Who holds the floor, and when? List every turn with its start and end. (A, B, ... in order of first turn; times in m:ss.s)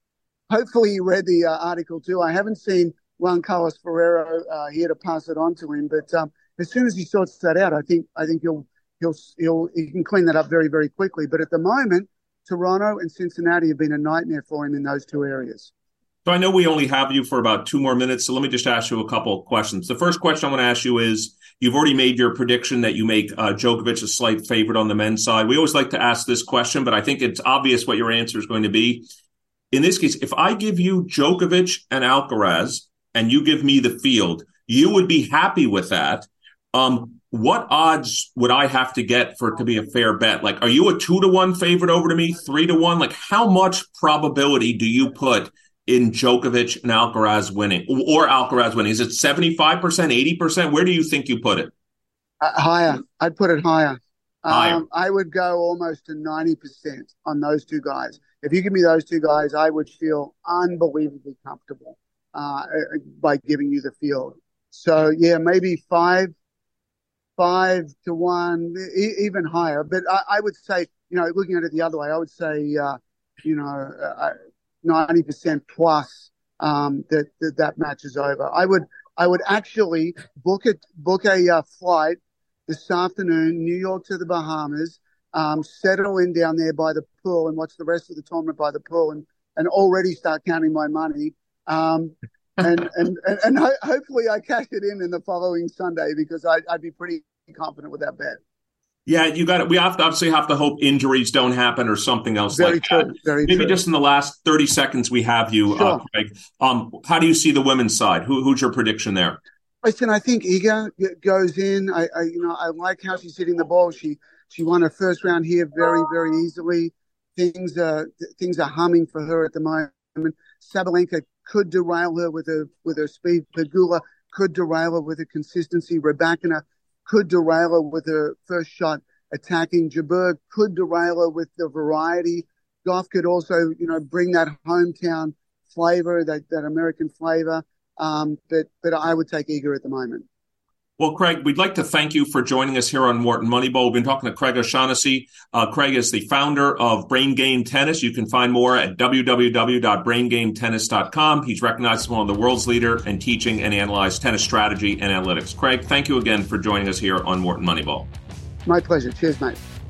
0:00.5-0:15.7 A
0:16.2-0:29.1 B
0:29.7-0:51.7 B
0:52.4-1:06.3 A
0:54.5-0:54.8 B
1:07.4-1:38.4 A
1:39.1-1:49.4 B
1:42.5-1:43.8 A
1:45.7-1:46.0 A
1:49.8-2:20.2 A
2:21.0-2:38.1 B
2:38.7-2:39.6 A